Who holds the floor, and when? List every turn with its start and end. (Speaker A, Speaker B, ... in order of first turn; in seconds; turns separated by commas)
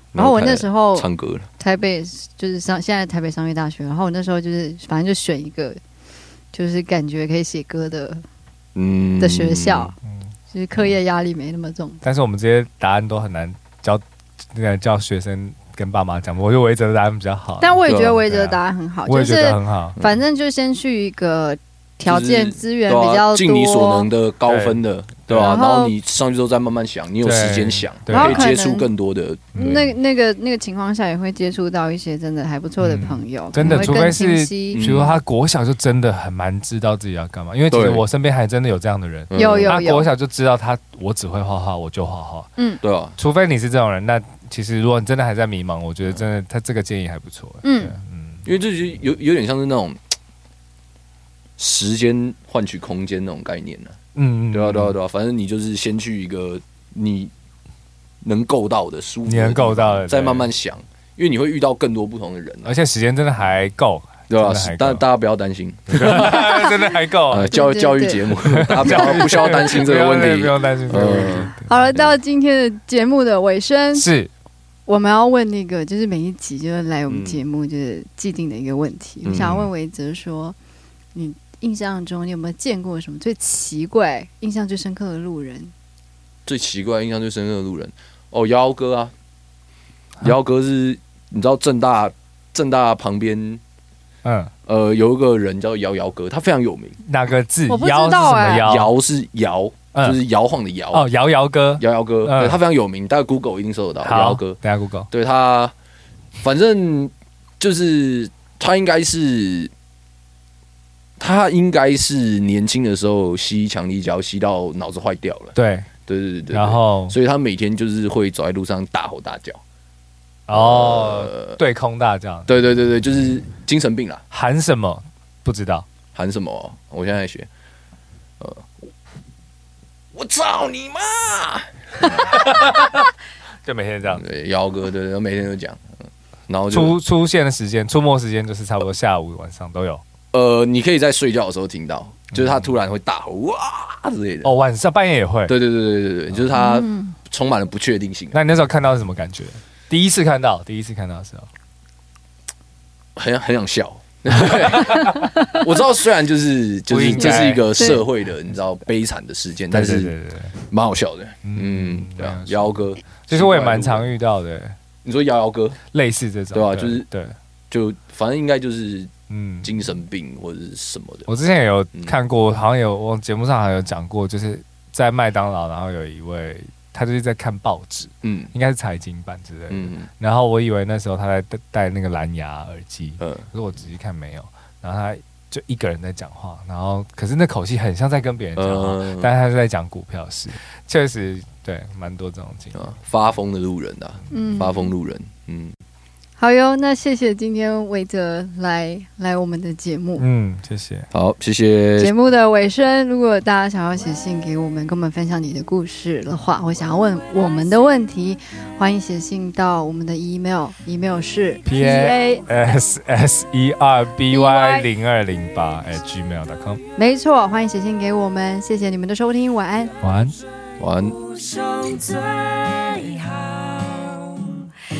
Speaker A: 0.1-1.5, Speaker B: 0.1-1.1, Speaker B: 1.6-5.8, Speaker B: 6.5-8.2, Speaker A: 8.8-9.9, Speaker B: 9.2-9.9, Speaker C: 10.1-10.9, Speaker B: 10.5-12.0, Speaker C: 12.0-14.0, Speaker C: 14.5-20.0, Speaker B: 17.6-24.1, Speaker A: 17.9-18.2, Speaker A: 22.0-29.6, Speaker C: 24.5-25.5, Speaker B: 25.3-25.9, Speaker C: 27.2-28.4, Speaker B: 28.1-28.9, Speaker C: 29.6-29.9, Speaker B: 29.6-34.8, Speaker C: 32.8-42.5, Speaker A: 33.6-34.1, Speaker A: 34.7-35.2, Speaker A: 37.7-38.0, Speaker A: 39.3-39.9, Speaker B: 39.3-40.1, Speaker A: 42.8-43.2, Speaker C: 43.2-48.4, Speaker B: 47.6-47.9, Speaker A: 48.5-50.0, Speaker A: 51.6-54.0, Speaker C: 54.1-55.0, Speaker A: 54.5-57.3, Speaker A: 58.2-62.8, Speaker C: 59.3-60.5, Speaker C: 62.6-65.0, Speaker A: 64.3-66.8, Speaker C: 65.9-67.5, Speaker A: 67.3-72.1, Speaker B: 67.5-69.1, Speaker C: 68.5-71.8, Speaker B: 71.0-74.1, Speaker C: 73.9-74.3, Speaker B: 74.9-80.6, Speaker A: 77.1-77.4, Speaker A: 79.2-79.7, Speaker B: 81.2-85.7, Speaker A: 86.5-89.1, Speaker A: 90.2-93.6, Speaker C: 94.2-94.5, Speaker A: 94.7-97.0, Speaker C: 97.0-98.9, Speaker B: 97.7-98.7, Speaker A: 98.6-101.1, Speaker C: 99.9-100.2, Speaker C: 100.9-102.6, Speaker A: 101.8-104.6, Speaker C: 104.0-105.1, Speaker A: 105.1-105.7, Speaker A: 106.4-109.7, Speaker A: 111.2-115.5, Speaker C: 115.5-115.9, Speaker A: 116.1-119.6, Speaker C: 116.5-117.2, Speaker C: 120.5-122.5, Speaker A: 120.5-121.6, Speaker A: 122.5-124.2, Speaker C: 124.3-125.9, Speaker A: 126.2-127.5, Speaker A: 128.4-128.7, Speaker A: 130.1-132.4, Speaker C: 132.1-133.1, Speaker C: 133.7-134.2, Speaker A: 134.1-137.0, Speaker C: 136.7-140.0, Speaker A: 140.3-144.5, Speaker C: 142.3-142.7, Speaker C: 144.4-145.6, Speaker A: 145.5-148.4, Speaker B: 146.5-147.2, Speaker C: 148.3-151.5, Speaker A: 153.2-164.1, Speaker C: 154.5-155.3, Speaker C: 156.9-157.8, Speaker B: 157.2-158.0, Speaker C: 159.7-160.6, Speaker C: 161.4-164.8, Speaker A: 165.0-165.8, Speaker C: 165.9-167.4, Speaker A: 166.5-167.1, Speaker A: 167.7-169.1, Speaker C: 169.3-169.7, Speaker A: 169.6-171.3, Speaker C: 171.3-192.8, Speaker A: 178.2-178.5, Speaker A: 179.7-180.1, Speaker A: 183.2-183.4, Speaker A: 188.6-189.3, Speaker A: 192.7-195.8, Speaker B: 194.3-194.9, Speaker B: 196.4-200.2, Speaker C: 200.2-201.1, Speaker A: 201.1-202.1, Speaker B: 202.0-212.8, Speaker C: 211.7-216.8, Speaker B: 214.3-214.9, Speaker B: 217.0-219.9, Speaker C: 220.0-220.4, Speaker A: 220.8-221.2, Speaker D: 221.0-224.7